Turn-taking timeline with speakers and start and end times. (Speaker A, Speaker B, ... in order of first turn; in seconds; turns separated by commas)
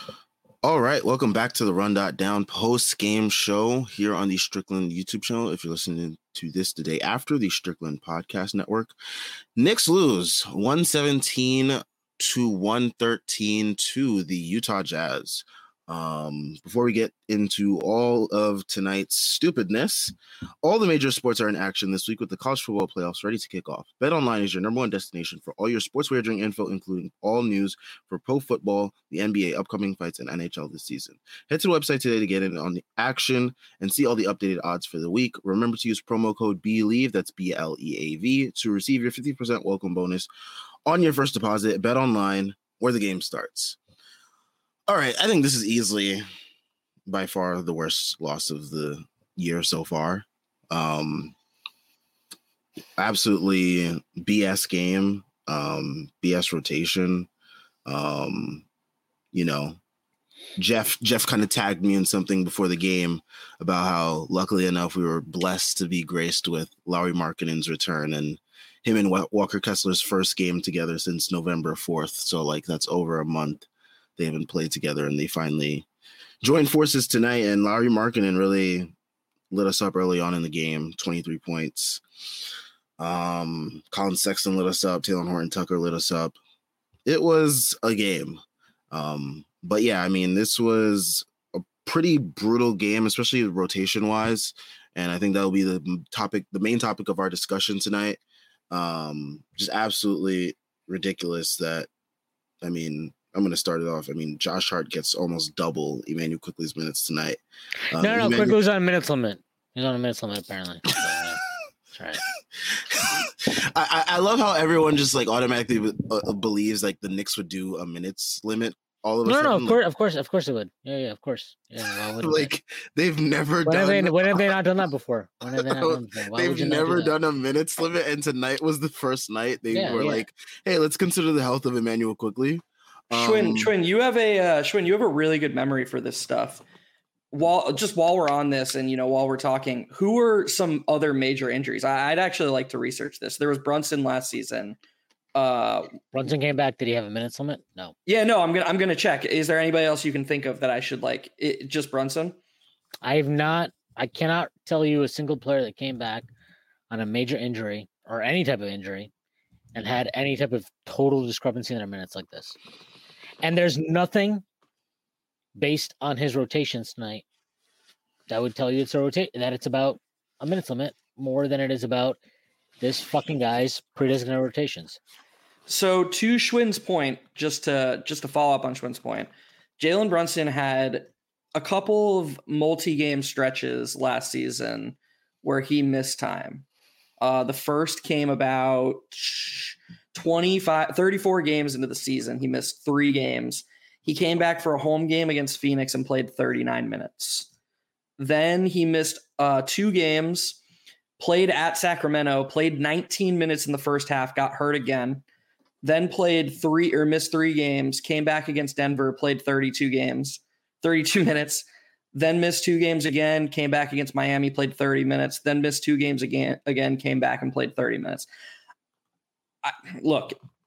Speaker A: 0.6-8.9, Speaker A: 9.6-40.3, Speaker A: 40.9-43.8, Speaker A: 44.9-46.2, Speaker A: 47.1-51.4, Speaker A: 53.0-57.3, Speaker A: 57.9-58.6, Speaker A: 59.3-59.8, Speaker A: 60.6-75.8, Speaker A: 76.4-78.9, Speaker A: 79.5-82.0, Speaker A: 83.0-86.4, Speaker A: 87.0-101.9, Speaker A: 102.6-107.4, Speaker A: 107.9-108.6, Speaker B: 108.0-111.4, Speaker B: 111.9-112.2, Speaker A: 112.6-119.8, Speaker B: 119.2-122.5, Speaker A: 122.1-124.5, Speaker B: 123.6-127.1, Speaker A: 125.4-133.7, Speaker B: 129.7-130.2, Speaker C: 133.1-136.6, Speaker C: 137.3-144.8, Speaker C: 145.3-145.9, Speaker B: 146.1-147.9, Speaker C: 148.1-152.4, Speaker B: 153.0-156.3, Speaker B: 156.9-159.1, Speaker B: 159.7-162.6, Speaker B: 163.4-164.4, Speaker B: 165.5-167.2, Speaker B: 168.3-172.2, Speaker B: 172.8-175.0, Speaker C: 175.7-186.7, Speaker C: 187.2-197.5, Speaker C: 198.2-200.6, Speaker C: 201.2-205.2, Speaker C: 205.8-218.3, Speaker C: 219.6-220.3